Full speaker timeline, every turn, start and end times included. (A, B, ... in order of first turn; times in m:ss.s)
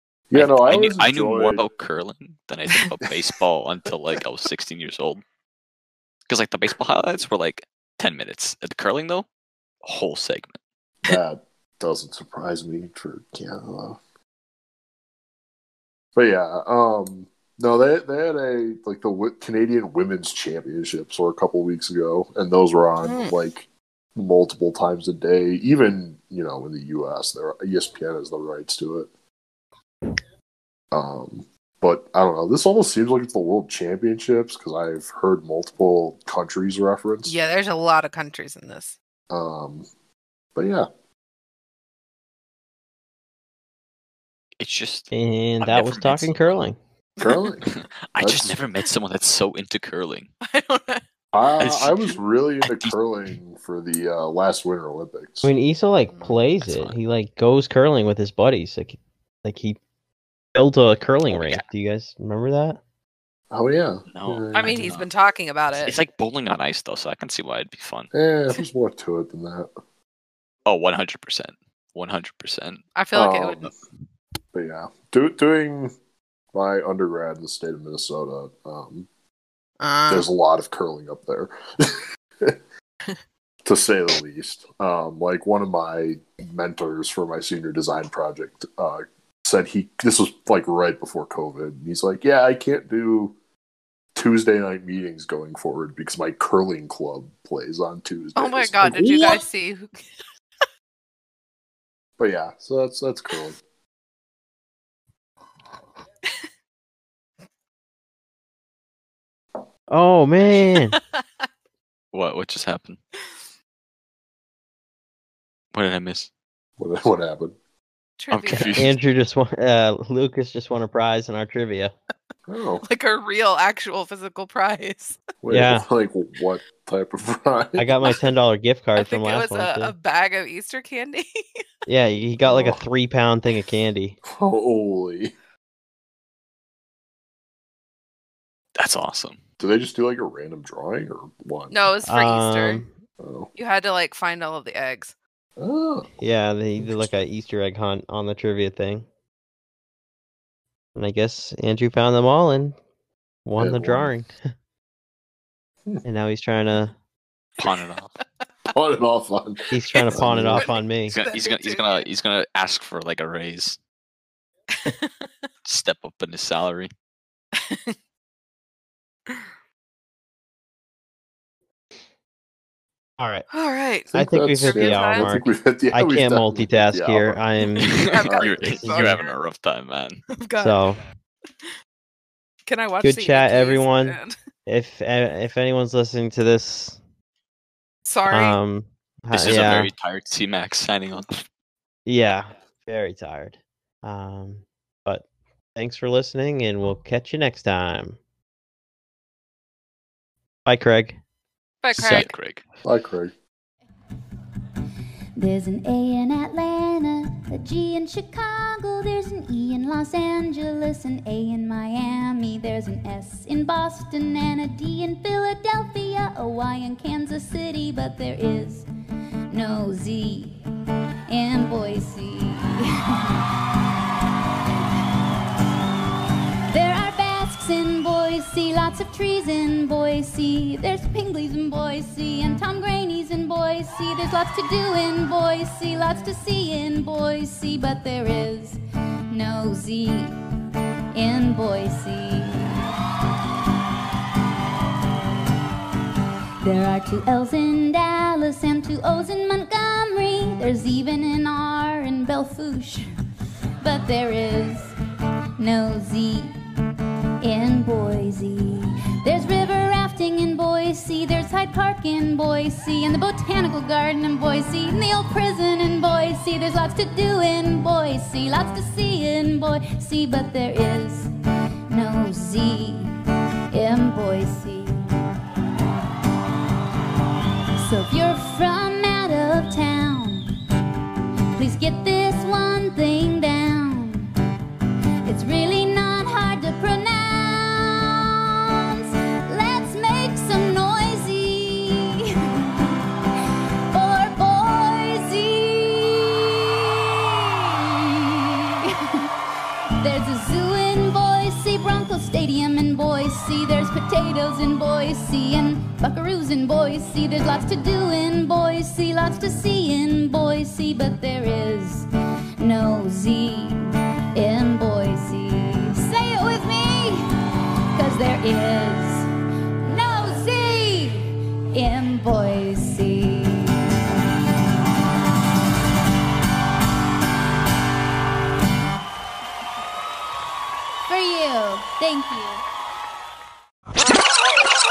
0:00.3-0:01.6 A
0:00.3-0:05.2 B
0:06.3-0:09.3 B
0:09.8-0:10.6 B
0:11.0-0:14.0 A
0:16.2-0:29.1 A
0:23.0-0:23.4 C
0:30.9-0:37.4 A
0:37.2-0:39.0 C
0:39.3-0:39.8 A
0:40.6-0:40.9 A
0:44.6-0:46.6 B
0:45.1-0:46.8 D
0:47.2-0:48.6 A
0:47.7-0:50.3 B
0:50.4-0:51.0 C
0:51.3-0:55.5 A
0:51.6-0:53.0 B
0:55.4-0:59.8 D
0:56.1-0:56.4 C
0:56.6-0:57.0 B
1:00.6-1:02.8 D
1:01.3-1:01.6 B
1:03.5-1:04.9 A
1:04.1-1:05.1 B
1:04.5-1:06.0 C
1:05.7-1:08.1 B
1:08.1-1:09.7 A
1:10.7-1:12.8 B
1:13.0-1:13.7 C
1:13.1-1:13.7 A
1:14.5-1:15.9 A
1:16.5-1:19.1 A
1:19.8-1:20.3 C
1:20.1-1:22.6 A
1:23.6-1:33.4 A
1:34.1-1:39.2 A
1:38.4-1:40.0 C
1:42.2-1:43.6 A
1:49.9-1:51.0 D
1:51.1-1:51.4 C
1:52.1-1:53.0 B
1:55.7-1:56.3 B
1:56.8-1:57.5 A
1:58.2-1:58.9 C
1:58.3-1:58.9 B
1:58.8-2:01.9 D
2:02.5-2:02.8 A
2:02.8-2:05.2 C
2:05.4-2:08.2 A
2:05.5-2:05.9 D
2:07.8-2:09.9 D
2:09.0-2:11.3 C
2:11.9-2:14.2 D
2:12.4-2:12.8 A
2:14.3-2:15.3 A
2:18.8-2:19.4 B
2:19.6-2:21.8 A
2:21.7-2:22.8 C
2:22.0-2:22.9 D
2:23.2-2:23.5 A
2:23.6-2:25.1 C
2:25.6-2:26.1 A
2:26.2-2:29.1 D
2:31.0-2:32.8 D
2:33.4-2:34.4 D
2:33.6-2:34.1 A
2:36.0-2:37.0 D
2:37.6-2:37.8 C
2:37.6-2:38.1 B
2:38.7-2:39.6 A
2:39.7-2:41.2 D
2:39.9-2:42.0 C
2:40.1-2:40.7 A
2:41.1-2:43.8 B
2:44.8-2:45.3 C
2:45.7-2:46.9 B
2:47.6-2:48.0 C
2:53.2-2:53.4 D
2:53.5-2:54.1 C
2:54.1-2:57.4 A
2:54.1-2:58.1 D
2:54.6-2:55.3 C
2:57.6-2:59.4 C
2:57.8-3:00.2 B
2:58.3-2:58.7 A
2:58.9-2:59.2 D
3:00.4-3:00.9 C
3:00.6-3:01.0 D
3:02.7-3:04.3 C
3:03.0-3:07.0 D
3:08.0-3:08.6 C
3:08.3-3:09.9 D
3:09.3-3:11.4 B
3:12.0-3:15.2 D
3:15.8-3:18.2 D
3:20.7-3:21.2 D
3:21.8-3:22.3 C
3:22.0-3:22.6 B
3:22.8-3:23.3 A
3:25.4-3:38.9 E
3:39.5-3:40.6 E
3:41.3-3:43.3 E
3:46.7-3:58.8 E
3:59.3-4:00.3 E
4:01.1-4:02.9 E
4:06.6-4:13.1 E
4:13.8-4:15.0 E
4:15.6-4:16.5 E
4:17.4-4:31.3 E
4:31.9-4:33.1 E
4:33.7-4:35.0 E
4:37.8-4:40.4 E
4:41.6-4:44.3 E
4:45.3-4:52.9 E
4:53.9-4:59.1 E
5:00.0-5:12.1 E
5:12.6-5:13.8 E
5:14.3-5:17.3 E
5:17.9-5:19.3 E
5:19.9-5:23.9 E
5:31.1-5:32.6 E